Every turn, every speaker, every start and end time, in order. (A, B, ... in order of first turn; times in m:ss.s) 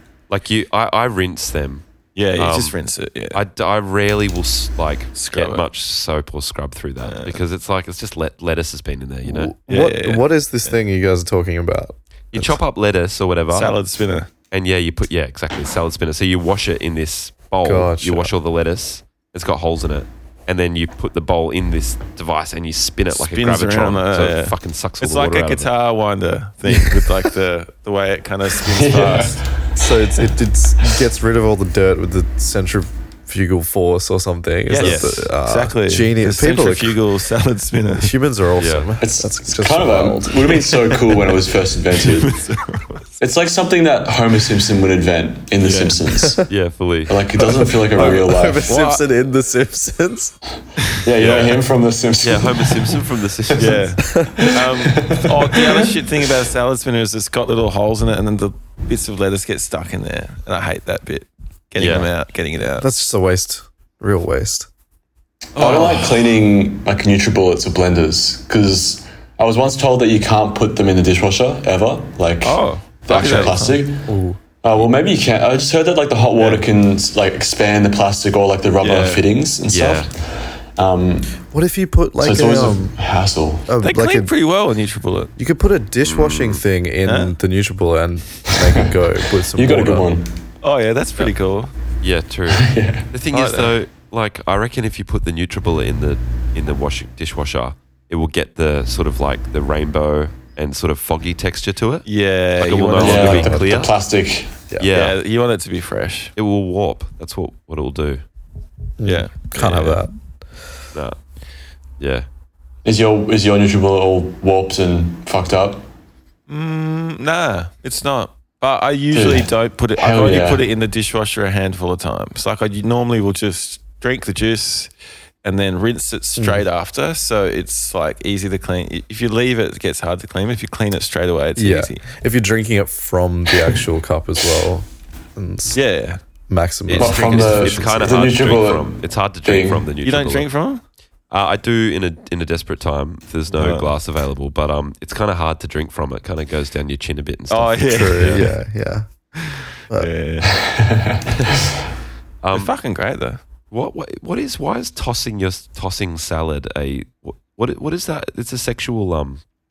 0:00.3-0:01.8 A
0:02.2-0:03.4 B
0:02.4-0:02.8 A
0:03.3-0:09.5 A
0:05.2-0:05.6 B
0:07.0-0:07.4 B
0:09.2-0:12.6 C
0:09.7-0:10.7 B
0:12.3-0:13.8 A
0:13.5-0:14.3 B
0:14.5-0:25.7 A
0:17.6-0:18.3 C
0:23.1-0:29.4 B
0:28.6-0:30.0 D
0:29.8-0:37.0 C
0:34.7-0:38.1 B
0:34.8-0:35.2 A
0:38.0-0:40.8 C
0:38.6-0:38.9 A
0:39.0-0:42.4 D
0:40.9-0:41.2 B
0:42.0-0:43.1 B
0:43.2-0:46.5 D
0:45.6-0:46.0 B
0:46.5-0:47.2 A
0:47.1-0:48.7 D
0:47.5-0:50.4 C
0:48.7-0:49.0 B
0:51.0-0:53.7 D
0:51.2-0:51.6 A
0:51.2-0:51.5 B
0:52.2-0:53.9 A
0:53.6-1:02.9 B
0:54.0-0:54.5 C
0:54.4-0:56.0 D
1:01.8-1:02.1 A
1:02.8-1:04.7 C
1:05.6-1:06.4 B
1:05.6-1:14.1 D
1:12.4-1:13.8 B
1:14.1-1:14.4 C
1:14.6-1:21.4 D
1:16.4-1:16.6 B
1:18.8-1:19.3 B
1:19.7-1:20.1 A
1:21.5-1:23.0 C
1:22.2-1:23.7 D
1:23.7-1:24.3 C
1:23.8-1:25.3 B
1:25.4-1:30.1 C
1:26.0-1:26.6 A
1:27.0-1:27.3 B
1:28.6-1:28.9 D
1:29.5-1:30.3 D
1:30.6-1:31.7 B
1:32.0-1:44.0 A
1:32.6-1:33.1 D
1:33.3-1:33.7 B
1:42.1-1:43.6 B
1:43.0-1:44.6 D
1:43.0-1:43.7 C
1:44.8-1:45.2 A
1:44.9-1:46.3 B
1:46.4-1:48.2 A
1:49.0-1:50.1 C
1:49.0-1:50.0 B
1:52.0-1:52.3 A
1:52.8-1:55.9 D
1:56.5-2:04.9 B
1:59.1-2:00.6 D
2:05.4-2:12.0 B
2:06.4-2:06.6 C
2:11.6-2:15.8 C
2:15.7-2:16.2 B
2:16.5-2:18.0 C
2:16.9-2:20.5 A
2:17.0-2:19.9 D
2:20.0-2:20.8 B
2:21.3-2:28.4 A
2:23.5-2:23.9 B
2:27.5-2:28.5 B
2:27.9-2:29.1 C
2:29.4-2:30.6 B
2:30.6-2:31.2 D
2:32.4-2:32.7 A
2:32.5-2:33.4 B
2:33.7-2:39.4 A